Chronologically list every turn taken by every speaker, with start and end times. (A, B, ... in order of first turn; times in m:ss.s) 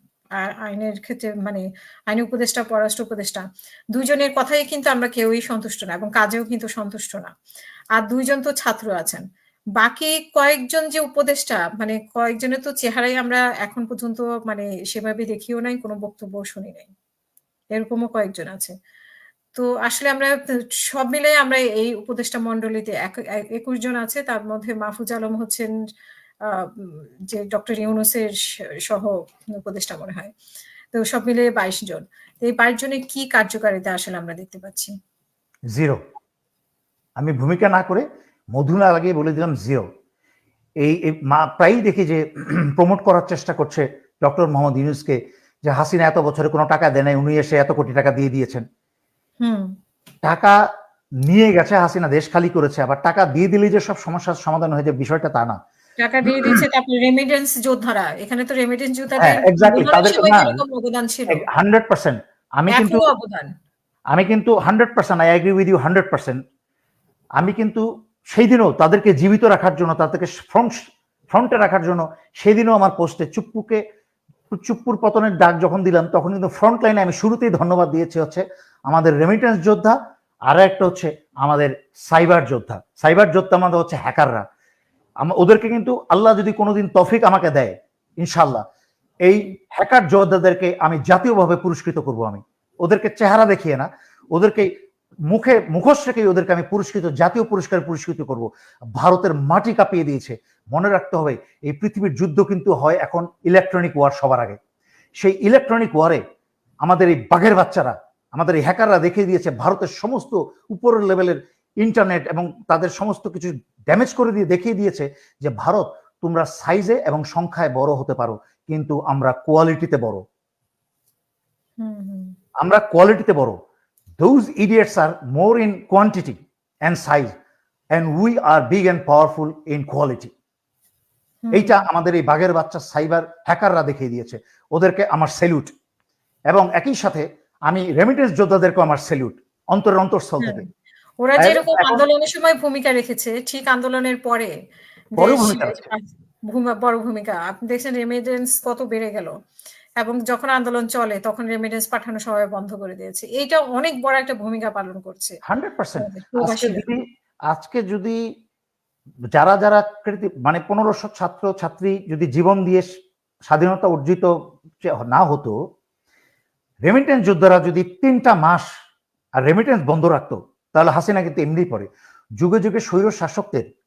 0:00.4-0:07.3 A
0:08.0-0:09.2 A
0:09.8-0:16.9 A
0:17.7-0:18.7 A
0:19.5-0:25.7 A
0:26.4-0:28.4 A
0:28.9-0:30.3 A
0:30.9-0:34.9 A
0:35.7-0:36.0 B
0:37.2-0:39.9 B
0:40.8-0:48.6 B
0:49.4-0:49.7 A
0:50.2-0:50.6 B
0:51.3-0:55.6 B
0:56.0-1:01.4 A
0:56.3-0:56.6 B
0:59.2-1:00.6 B
1:01.3-1:03.0 B
1:02.7-1:03.5 A
1:04.1-1:06.4 B
1:07.4-1:10.8 B
1:11.3-1:13.8 B
1:14.5-1:19.9 B
1:20.5-1:24.4 B
1:25.2-1:28.6 B
1:29.2-1:34.7 B
1:35.3-1:44.6 B
1:45.2-1:46.2 B
1:46.8-2:00.2 B
2:01.8-2:02.3 A
2:02.6-2:03.6 B
2:04.2-2:07.3 B
2:07.9-2:10.3 B
2:11.4-2:11.7 A
2:11.5-2:15.7 B
2:16.5-2:20.6 B
2:21.2-2:24.5 A
2:21.4-2:22.0 B
2:25.2-2:25.8 B
2:25.2-2:29.3 A
2:30.0-2:35.4 A
2:35.5-2:38.2 B
2:36.0-2:36.8 A
2:39.3-2:42.9 B
2:43.5-2:45.6 B
2:46.8-2:48.7 B
2:49.4-2:51.9 B
2:52.4-2:53.6 B